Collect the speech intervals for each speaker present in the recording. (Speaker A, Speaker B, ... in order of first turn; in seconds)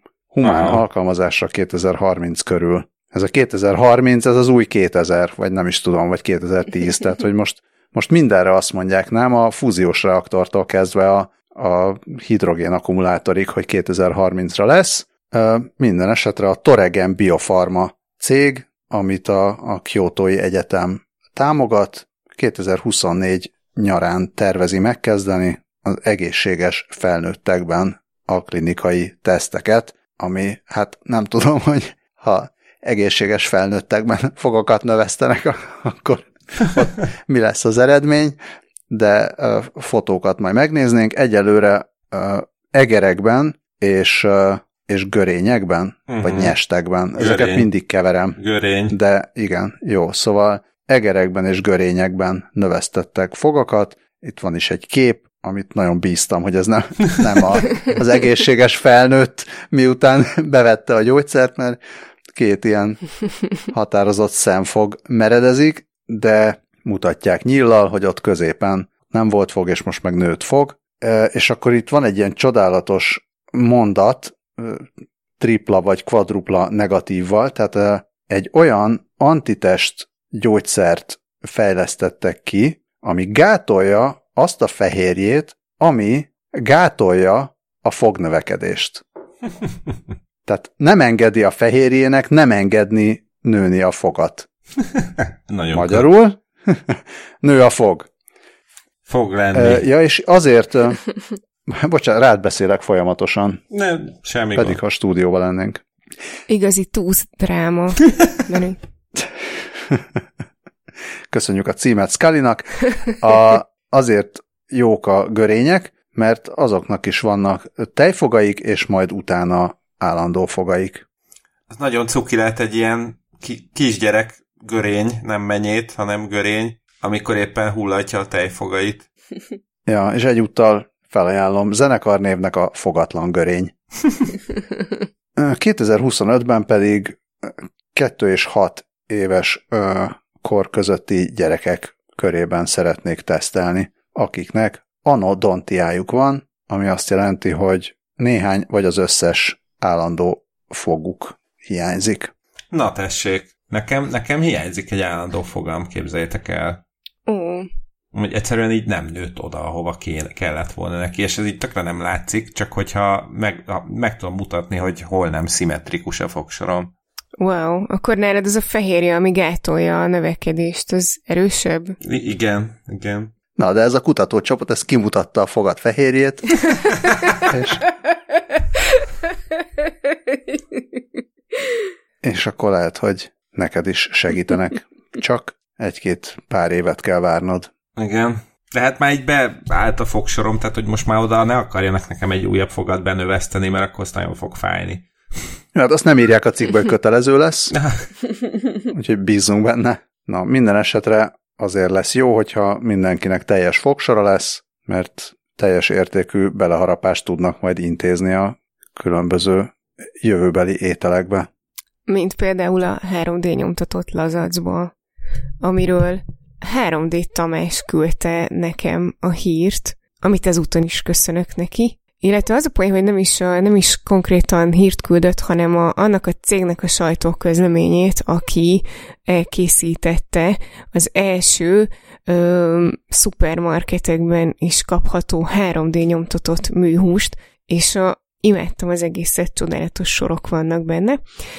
Speaker A: 0.3-38.4, 38.9-48.4, 48.9-61.8, 62.3-63.0, 63.7-74.8, 75.4-89.0, 90.4-94.5, 95.7-98.1, 99.5-101.0, 101.7-103.6, 104.5-105.8, 109.2-110.2, 111.3-121.0, 129.9-133.7, 135.3-152.3, 173.6-176.7, 177.3-177.8, 182.2-187.7, 195.7-197.7, 198.9-211.5
Speaker B: 0.4-0.8, 46.1-46.5, 47.2-47.7, 48.4-49.0, 95.5-96.0, 99.1-99.8, 103.7-104.8, 121.7-129.1, 152.7-156.8, 158.1-166.9, 172.0-173.3, 187.9-195.1, 197.7-198.0
Speaker C: 106.5-108.8, 157.2-157.7, 167.4-172.0, 212.1-214.9, 215.6-241.2